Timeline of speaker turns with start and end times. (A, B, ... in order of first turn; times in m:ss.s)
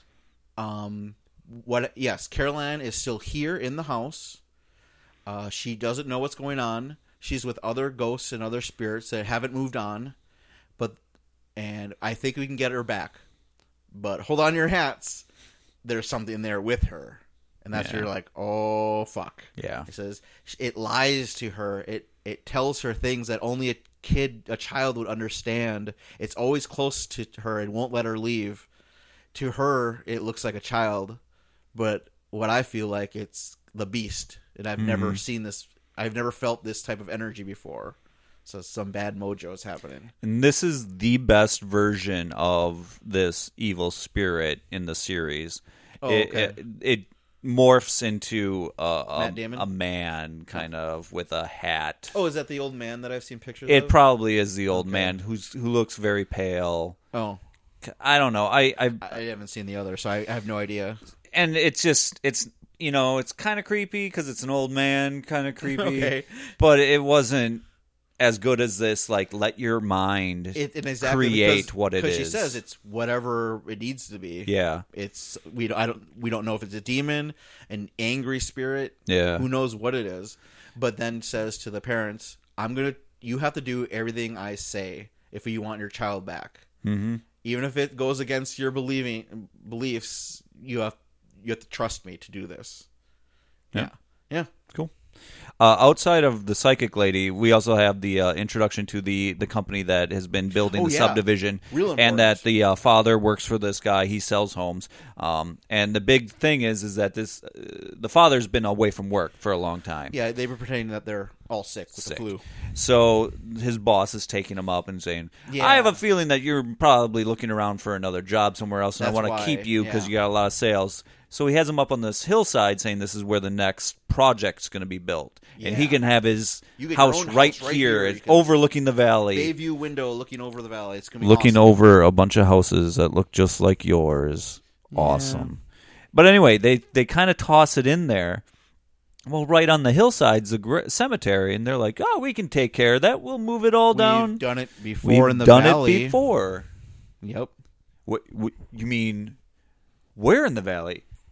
0:00.6-0:04.4 A
0:05.3-0:10.1 A
0:11.6-0:13.2 A
0:13.9-0:15.3 A
0:15.8-0:28.7 A
0:17.7-0:18.1 B
0:19.6-0:19.9 B
0:29.3-0:31.2 A
0:31.7-0:40.1 A
0:34.8-0:35.2 B
0:40.2-0:52.1 B
0:46.0-0:46.6 A
0:49.2-0:49.7 A
0:52.1-0:54.0 A
0:53.7-0:57.0 B
0:54.7-0:55.1 A
0:57.1-0:57.4 A
0:57.8-0:59.2 B
0:59.0-1:01.0 A
1:01.3-1:07.6 B
1:05.6-1:06.5 A
1:08.2-1:12.6 B
1:10.5-1:26.6 A
1:14.5-1:14.8 B
1:19.1-1:19.4 B
1:26.8-1:27.2 B
1:27.4-1:32.9 A
1:33.7-1:34.5 A
1:35.6-1:50.1 B
1:40.7-1:42.4 A
1:50.1-1:52.4 A
1:52.0-2:09.5 B
1:55.5-1:56.0 A
1:59.0-2:00.1 A
2:05.6-2:06.0 A
2:06.8-2:08.5 A
2:09.3-2:12.0 A
2:11.2-2:15.6 B
2:14.9-2:15.5 A
2:16.1-2:18.4 B
2:19.3-2:24.4 B
2:23.9-2:26.2 A
2:25.0-2:26.7 B
2:27.2-2:27.5 A
2:28.0-2:29.4 B
2:30.2-2:31.0 B